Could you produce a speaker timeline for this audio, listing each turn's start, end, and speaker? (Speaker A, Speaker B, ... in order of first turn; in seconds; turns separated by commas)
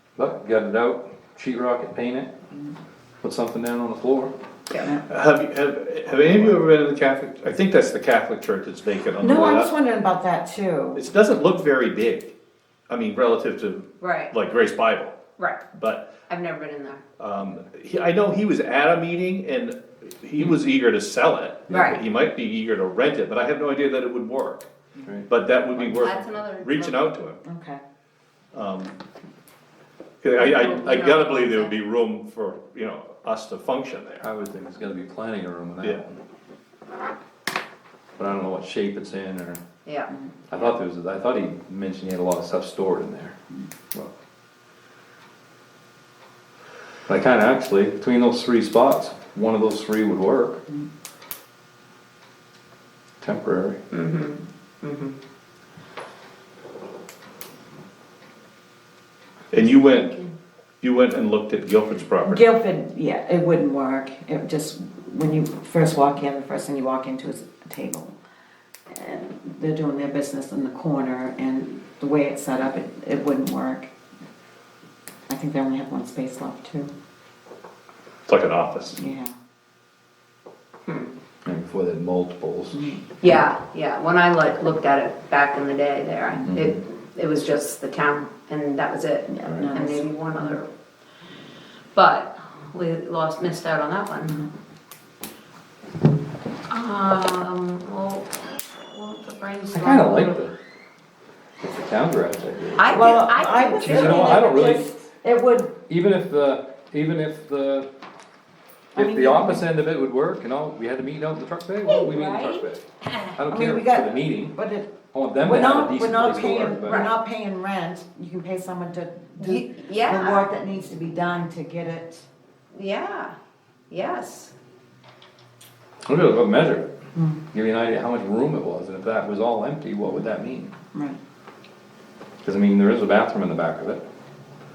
Speaker A: 0.2-2.3, Speaker A: 3.2-4.3, Speaker B: 4.9-9.7, Speaker C: 9.2-11.0, Speaker B: 10.9-12.3, Speaker B: 12.9-15.2, Speaker D: 14.0-14.3, Speaker D: 15.4-15.6, Speaker B: 15.7-16.1, Speaker D: 16.3-17.0, Speaker B: 17.2-24.7, Speaker D: 21.7-22.0, Speaker C: 24.9-25.2, Speaker B: 25.3-27.4, Speaker A: 25.8-26.2, Speaker D: 25.9-27.1, Speaker C: 27.4-27.8, Speaker B: 28.5-28.9, Speaker B: 30.2-34.2, Speaker D: 30.4-31.7, Speaker A: 34.2-36.2, Speaker A: 38.2-39.6, Speaker D: 39.8-40.1, Speaker A: 40.5-43.4, Speaker A: 47.1-50.6, Speaker A: 53.2-53.8, Speaker D: 53.9-55.1, Speaker B: 59.5-60.1, Speaker D: 59.8-60.3, Speaker B: 60.8-62.4, Speaker C: 62.2-68.2, Speaker C: 68.9-73.9, Speaker C: 75.3-76.9, Speaker B: 78.3-79.0, Speaker C: 78.9-79.3, Speaker A: 81.4-82.9, Speaker C: 82.7-83.0, Speaker D: 83.2-90.7, Speaker A: 86.5-86.8, Speaker C: 89.3-90.6, Speaker D: 91.9-94.4, Speaker D: 96.7-100.4, Speaker A: 99.7-100.5, Speaker A: 101.6-103.1, Speaker D: 102.8-104.8, Speaker C: 102.9-105.8, Speaker A: 103.8-104.8, Speaker A: 105.9-107.9, Speaker A: 108.9-112.8, Speaker C: 109.0-109.7, Speaker D: 111.8-112.6, Speaker A: 113.3-114.5, Speaker C: 113.5-122.2, Speaker A: 115.1-117.0, Speaker D: 116.8-117.1, Speaker D: 119.3-120.5, Speaker D: 122.7-123.3, Speaker D: 123.9-124.5, Speaker A: 126.1-126.9, Speaker C: 127.1-127.4, Speaker A: 127.5-130.7, Speaker A: 132.4-134.0